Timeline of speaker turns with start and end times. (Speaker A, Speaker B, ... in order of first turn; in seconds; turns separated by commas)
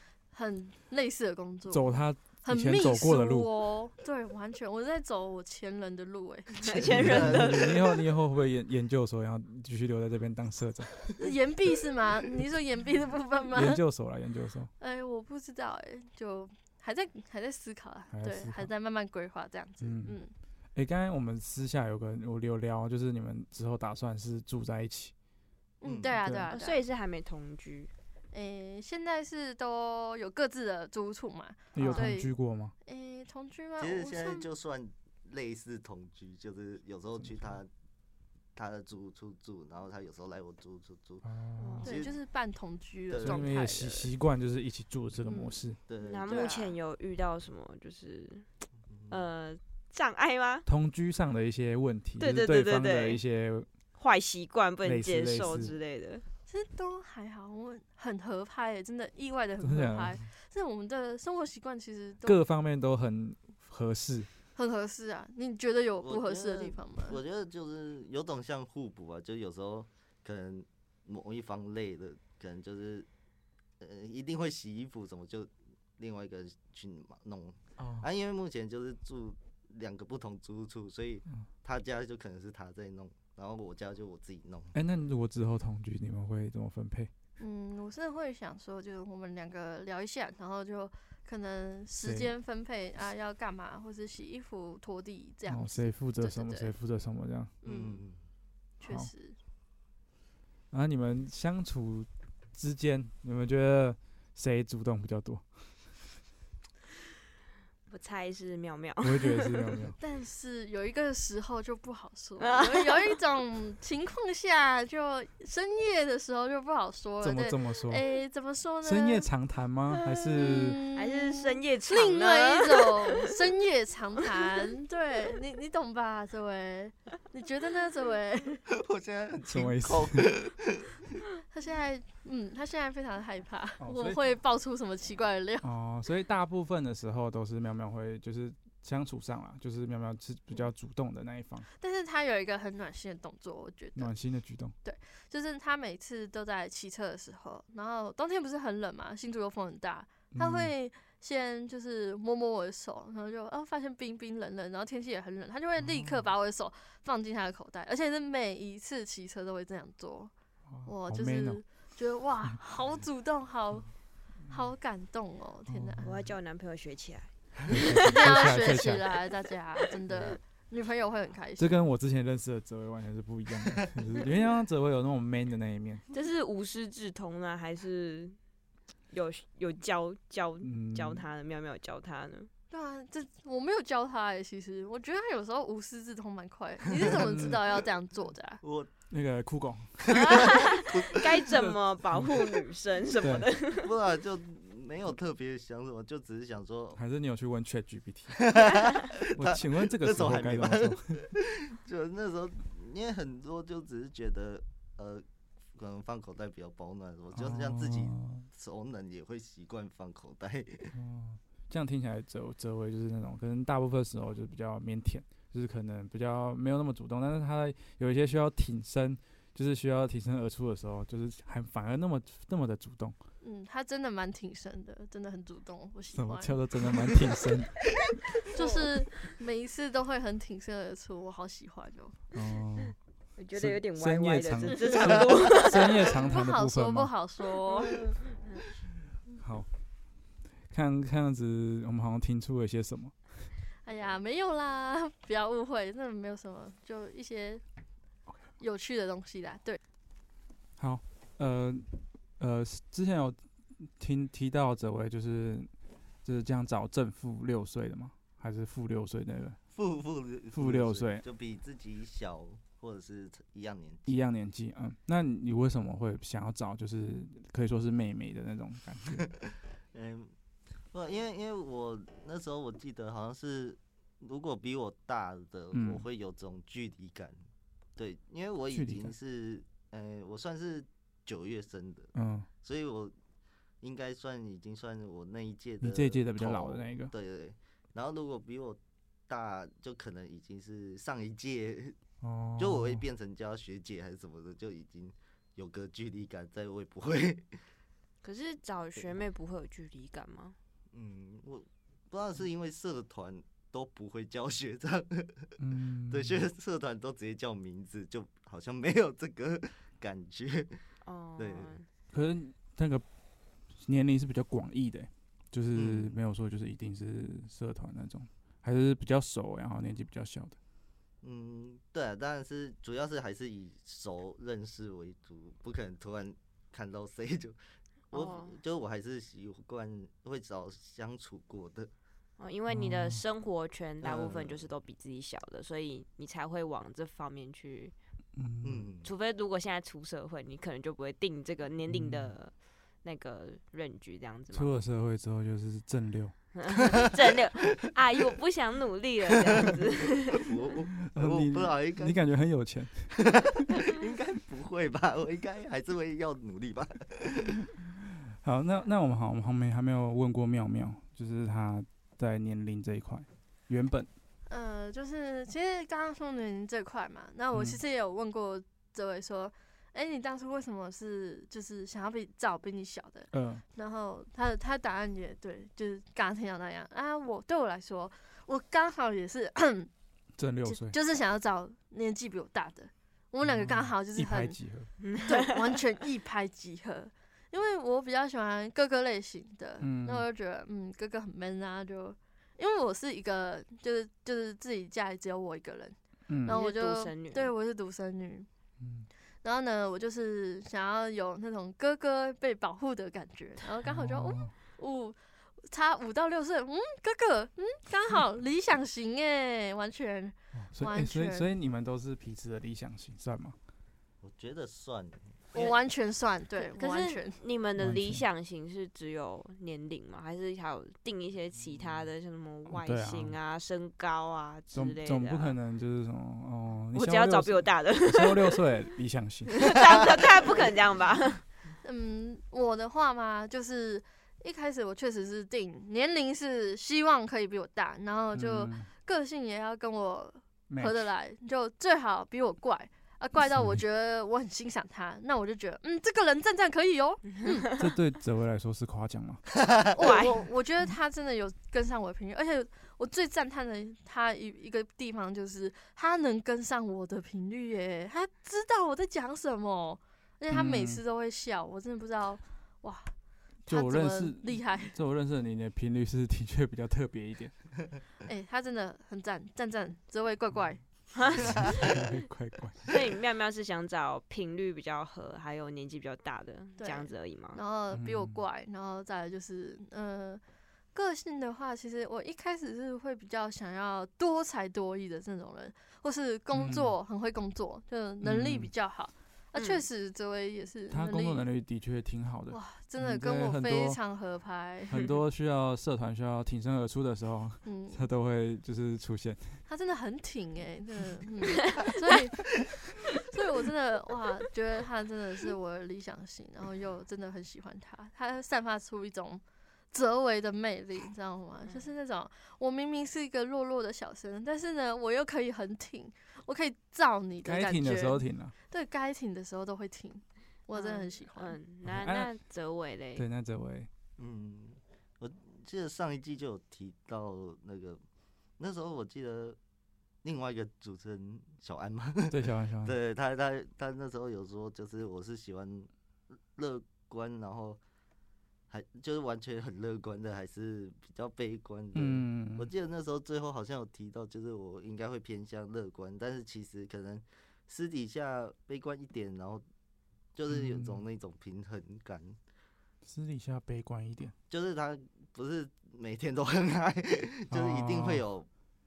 Speaker A: 0.3-1.9, Speaker B: 1.7-3.5, Speaker A: 2.4-7.0, Speaker C: 6.6-8.0, Speaker B: 6.8-11.1, Speaker D: 7.1-7.7, Speaker A: 11.2-13.8, Speaker B: 13.5-14.7, Speaker A: 14.8-20.3, Speaker B: 18.1-18.7, Speaker B: 19.8-20.2, Speaker B: 20.7-25.1, Speaker A: 25.8-26.8, Speaker D: 25.8-26.2, Speaker B: 26.2-26.5, Speaker C: 26.5-27.9, Speaker A: 28.3-32.3, Speaker B: 31.7-32.7, Speaker C: 31.8-32.1, Speaker A: 32.8-34.5, Speaker D: 33.8-37.7, Speaker D: 38.5-41.2, Speaker B: 41.2-41.8, Speaker C: 41.6-41.9, Speaker D: 41.8-42.1, Speaker A: 41.8-44.1, Speaker D: 43.1-43.4, Speaker B: 43.2-45.8, Speaker A: 45.2-45.7, Speaker D: 45.9-46.5, Speaker C: 46.0-48.5, Speaker A: 46.3-46.7, Speaker D: 48.9-49.2, Speaker C: 49.1-50.6, Speaker B: 50.6-53.7, Speaker C: 52.2-53.2, Speaker C: 54.0-56.2, Speaker B: 54.8-55.7, Speaker A: 56.5-62.4, Speaker B: 59.6-60.2, Speaker B: 62.2-64.3, Speaker A: 64.5-67.2, Speaker D: 66.0-73.1, Speaker D: 73.8-84.7, Speaker B: 77.8-78.1, Speaker B: 84.7-87.1, Speaker A: 87.4-96.7, Speaker B: 92.0-92.3, Speaker B: 95.5-97.5, Speaker D: 97.6-98.2, Speaker A: 97.6-98.0, Speaker A: 98.8-99.3, Speaker B: 98.8-99.1, Speaker B: 100.7-105.5, Speaker C: 107.9-109.8, Speaker B: 109.0-110.0, Speaker A: 110.0-119.3, Speaker C: 112.4-113.2, Speaker B: 117.2-118.0, Speaker B: 118.8-120.8, Speaker C: 120.3-123.3, Speaker A: 120.3-128.6, Speaker D: 128.7-131.0, Speaker B: 129.4-130.3, Speaker A: 131.5-135.7, Speaker B: 133.8-134.2, Speaker B: 135.6-141.7, Speaker A: 141.7-144.1, Speaker B: 143.9-144.7, Speaker A: 144.8-160.3, Speaker B: 150.3-150.7, Speaker B: 155.8-156.2, Speaker B: 160.7-161.6, Speaker A: 160.8-163.9, Speaker A: 164.5-166.1, Speaker B: 165.7-166.2, Speaker C: 166.0-168.5, Speaker B: 167.7-169.2, Speaker A: 168.1-171.8, Speaker B: 171.6-176.0, Speaker C: 176.1-178.4, Speaker C: 179.1-182.5, Speaker B: 180.6-181.2, Speaker A: 182.7-188.6, Speaker D: 186.9-187.2, Speaker B: 187.0-187.6, Speaker D: 188.6-188.9, Speaker B: 189.1-190.1, Speaker D: 190.0-191.5, Speaker C: 190.1-194.0, Speaker B: 191.5-192.3, Speaker B: 193.2-193.5, Speaker D: 193.6-197.0, Speaker B: 197.0-198.5, Speaker D: 198.3-205.2, Speaker B: 199.2-201.1, Speaker D: 205.7-210.9, Speaker B: 207.3-208.5, Speaker B: 210.9-223.2, Speaker A: 223.4-226.6, Speaker B: 226.1-228.0, Speaker A: 228.4-232.2, Speaker B: 232.3-232.9, Speaker C: 233.4-236.2, Speaker B: 233.6-237.1, Speaker A: 236.1-238.0, Speaker C: 237.9-238.6, Speaker B: 239.3-239.7, Speaker B: 240.7-243.5, Speaker A: 243.8-247.6, Speaker A: 248.6-249.8, Speaker B: 250.8-251.9, Speaker B: 252.4-255.7, Speaker B: 256.2-259.6, Speaker D: 259.7-264.2, Speaker B: 260.5-261.2, Speaker B: 264.1-269.3, Speaker D: 269.9-270.3, Speaker D: 270.9-277.4, Speaker B: 275.7-276.0, Speaker D: 278.0-283.1, Speaker B: 278.7-279.1, Speaker B: 282.1-282.5, Speaker D: 283.8-292.0, Speaker B: 285.8-287.1, Speaker B: 292.2-293.0, Speaker D: 292.6-297.5, Speaker C: 298.2-300.6, Speaker D: 300.9-305.6, Speaker B: 305.6-306.4, Speaker D: 306.1-310.8, Speaker C: 311.0-311.9, Speaker D: 311.4-311.7, Speaker B: 312.1-313.1, Speaker B: 313.7-320.6, Speaker D: 315.7-316.2, Speaker D: 321.2-327.6, Speaker D: 328.1-331.9, Speaker C: 328.1-328.5, Speaker C: 332.4-337.9, Speaker B: 332.7-333.2, Speaker D: 334.0-334.7, Speaker B: 338.4-338.9, Speaker D: 338.6-339.1, Speaker C: 339.0-344.8, Speaker B: 341.9-342.3, Speaker B: 344.5-346.5, Speaker C: 346.6-350.6, Speaker D: 349.5-349.8, Speaker D: 350.3-352.2, Speaker B: 351.1-353.4, Speaker D: 353.1-357.7, Speaker B: 358.3-364.1, Speaker A: 364.5-379.9, Speaker B: 367.5-367.8, Speaker B: 373.3-373.6, Speaker B: 380.4-380.9, Speaker A: 380.6-384.6, Speaker B: 383.4-384.9, Speaker C: 385.0-385.8, Speaker A: 385.2-398.5, Speaker B: 389.8-390.3, Speaker B: 396.3-396.6, Speaker C: 396.4-397.5, Speaker B: 398.8-399.1, Speaker A: 399.4-411.5, Speaker B: 403.9-404.5, Speaker B: 410.6-413.6, Speaker D: 414.2-415.7, Speaker A: 415.5-417.4, Speaker C: 416.6-425.6, Speaker B: 417.8-418.2, Speaker B: 422.7-423.3, Speaker B: 424.7-429.8, Speaker C: 426.9-428.9, Speaker C: 429.6-431.4, Speaker A: 431.8-447.7, Speaker B: 438.3-438.9, Speaker B: 440.7-441.0, Speaker B: 443.5-443.8, Speaker B: 447.8-449.4, Speaker A: 449.9-463.1, Speaker C: 450.0-450.3, Speaker B: 460.5-461.0, Speaker A: 463.6-464.9, Speaker B: 463.7-467.7, Speaker A: 468.2-470.8, Speaker C: 471.1-472.1, Speaker B: 471.4-473.0, Speaker C: 472.9-477.6, Speaker A: 476.8-480.4, Speaker B: 477.9-478.4, Speaker A: 480.9-491.5, Speaker B: 486.5-486.9, Speaker B: 488.2-488.7, Speaker C: 489.6-489.8, Speaker B: 490.9-494.0, Speaker A: 492.5-495.1, Speaker B: 494.9-499.6, Speaker A: 497.6-498.0, Speaker A: 499.7-521.6, Speaker B: 517.4-518.5, Speaker C: 520.7-523.3, Speaker B: 521.8-522.3, Speaker B: 523.1-523.9, Speaker D: 524.2-528.0, Speaker D: 528.6-529.6, Speaker D: 530.2-535.9, Speaker B: 532.3-533.0, Speaker D: 536.5-537.8, Speaker D: 538.7-549.6, Speaker B: 541.9-542.7, Speaker D: 550.3-552.4, Speaker B: 550.5-551.0, Speaker B: 553.0-554.3, Speaker D: 554.5-558.5, Speaker B: 557.5-558.2